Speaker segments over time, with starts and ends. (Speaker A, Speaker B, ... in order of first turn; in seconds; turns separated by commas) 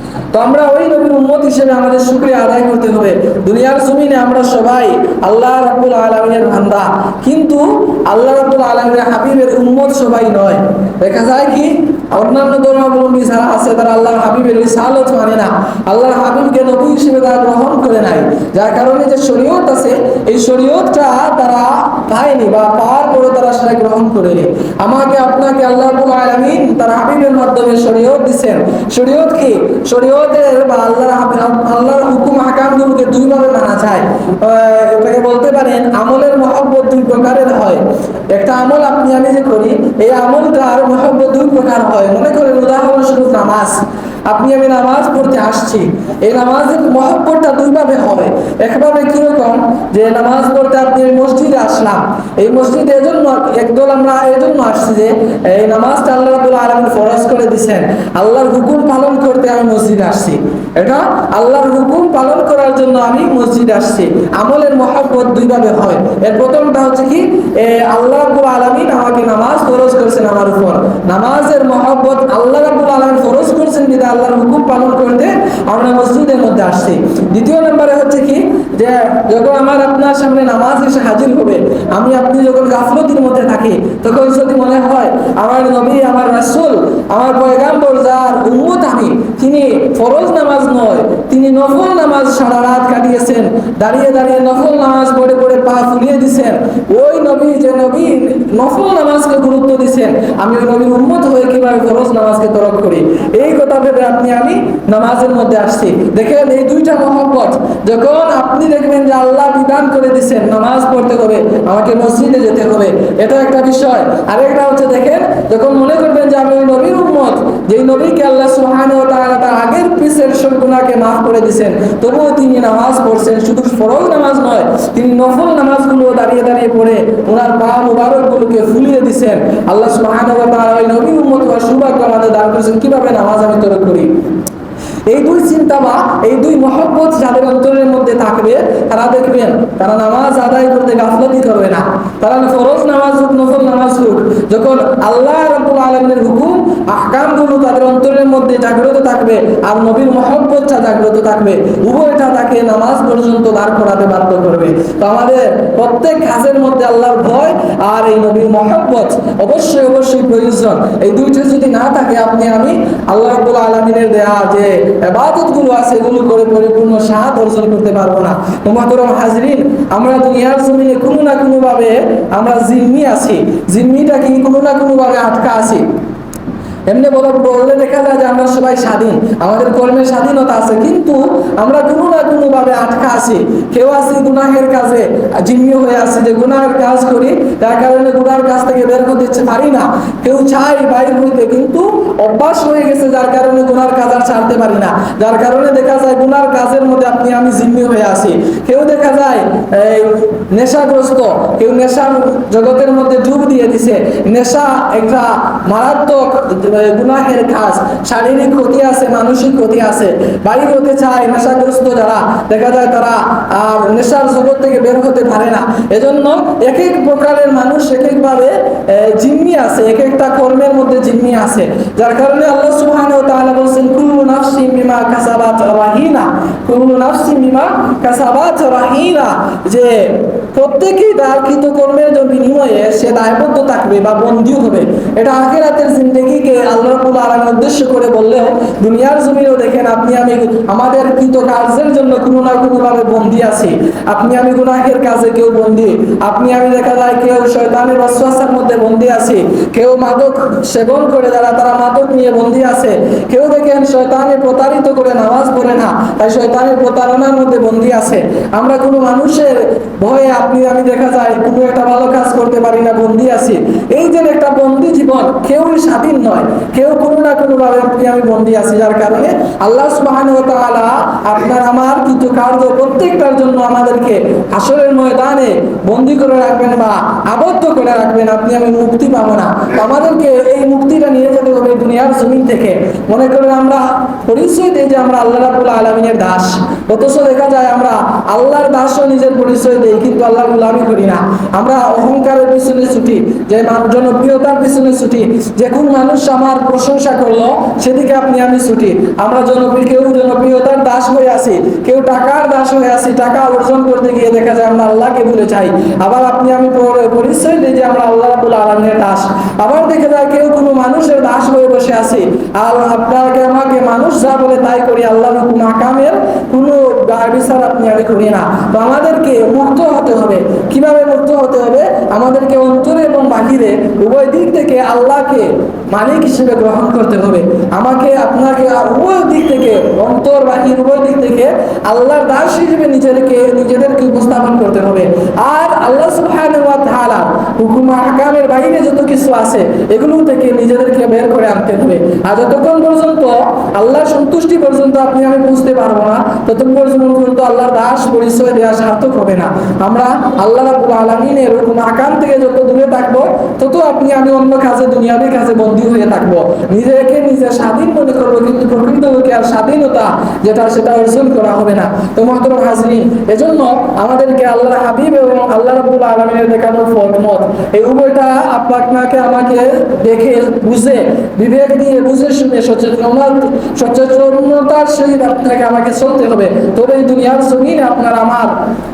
Speaker A: 0.3-134.1, Speaker A: 135.1-175.8, Speaker A: 176.9-378.6